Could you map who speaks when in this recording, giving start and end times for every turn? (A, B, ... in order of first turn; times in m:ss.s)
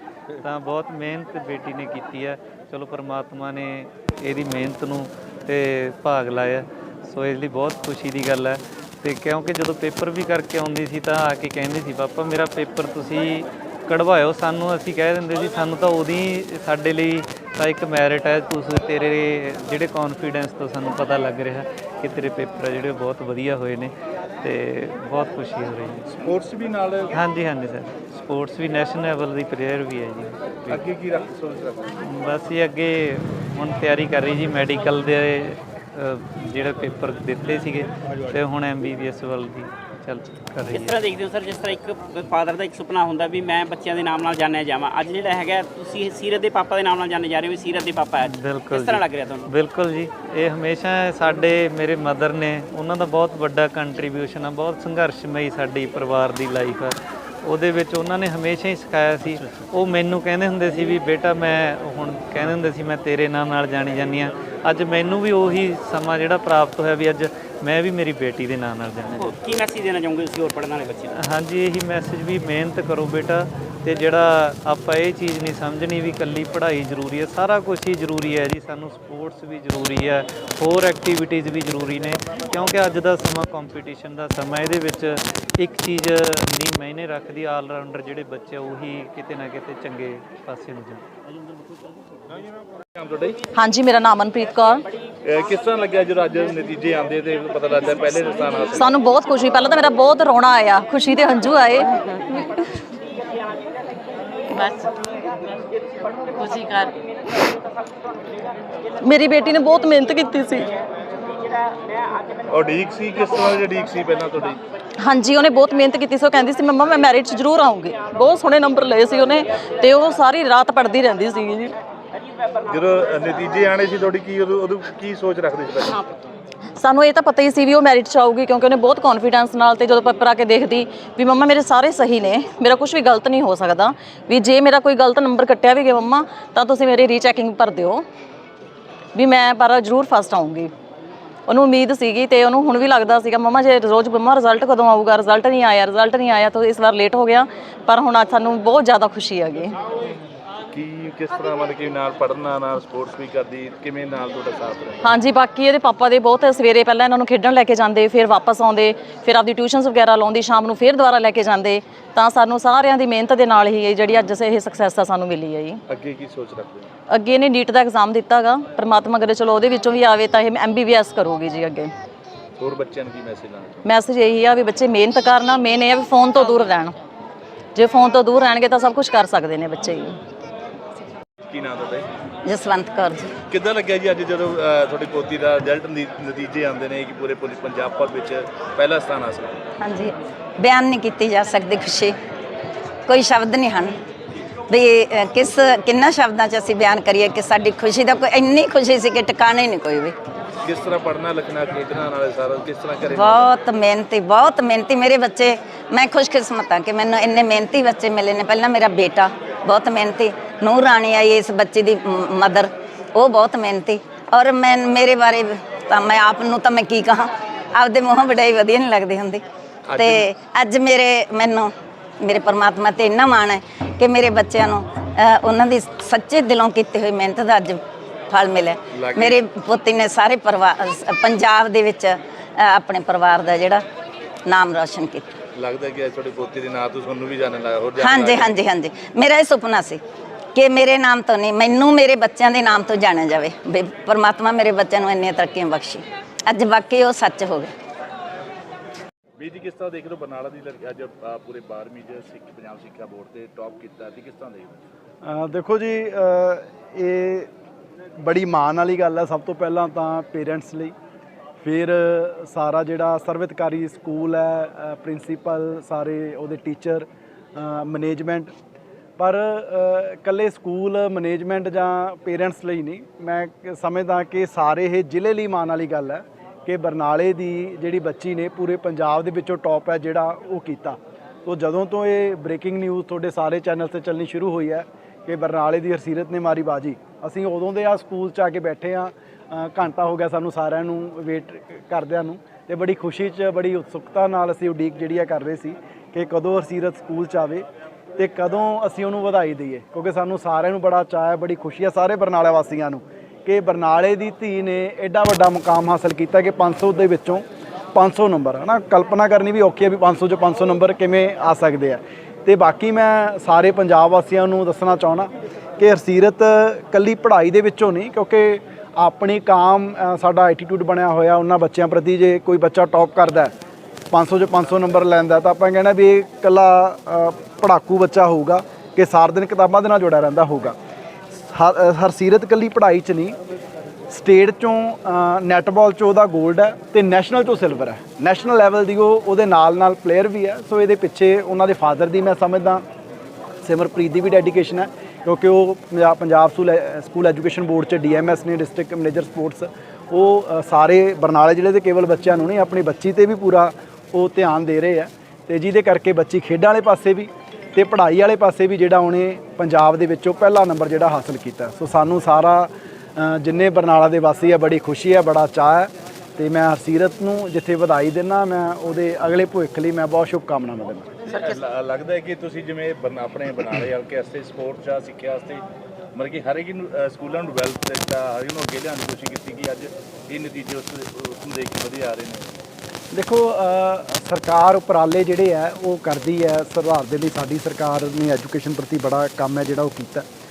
0:00.4-0:26.2 A
0:26.2-0:27.1 B
0:27.1-0:30.8 A
0:30.7-0:32.0 B
0:32.0-0:41.0 A
0:40.7-0:49.5 C
0:48.2-1:09.3 A
1:09.1-1:11.2 C
1:11.1-1:31.0 A
1:33.0-1:33.4 B
1:33.5-1:34.8 D
1:35.2-1:38.9 B
1:38.7-1:42.6 D
1:44.6-1:44.9 D
1:46.4-1:46.9 D
1:49.0-1:50.7 D
1:52.5-1:54.6 B
1:55.0-2:01.7 D
2:02.7-2:06.0 B
2:06.8-2:18.0 D
2:19.1-2:20.7 D
2:21.5-2:29.7 D
2:30.7-2:35.1 B
2:35.0-2:45.8 D
2:45.9-2:46.9 B
2:47.1-2:51.9 D
2:52.6-2:53.8 B
2:53.8-2:57.0 D
2:57.7-3:00.2 D
3:01.4-3:02.1 B
3:02.4-3:03.3 E
3:03.5-3:09.6 B
3:09.8-3:12.2 E
3:13.1-3:14.0 E
3:14.7-3:20.1 E
3:20.6-3:23.5 B
3:23.0-3:53.8 E
3:39.9-3:40.3 B
3:48.9-3:49.4 B
3:54.4-3:55.3 E
3:55.5-3:58.6 B
3:58.0-4:00.0 E
4:00.5-4:07.7 E
4:09.4-4:14.8 B
4:15.2-4:17.5 F
4:18.2-4:20.9 F
4:21.6-4:28.5 F
4:29.2-4:57.6 F
4:58.2-5:23.5 F
5:24.1-5:30.7 F
5:31.4-5:33.4 F
5:34.1-5:42.8 F
5:43.6-6:11.1 F
6:11.3-6:15.6 B
6:16.1-6:22.5 B
6:23.1-6:30.2 F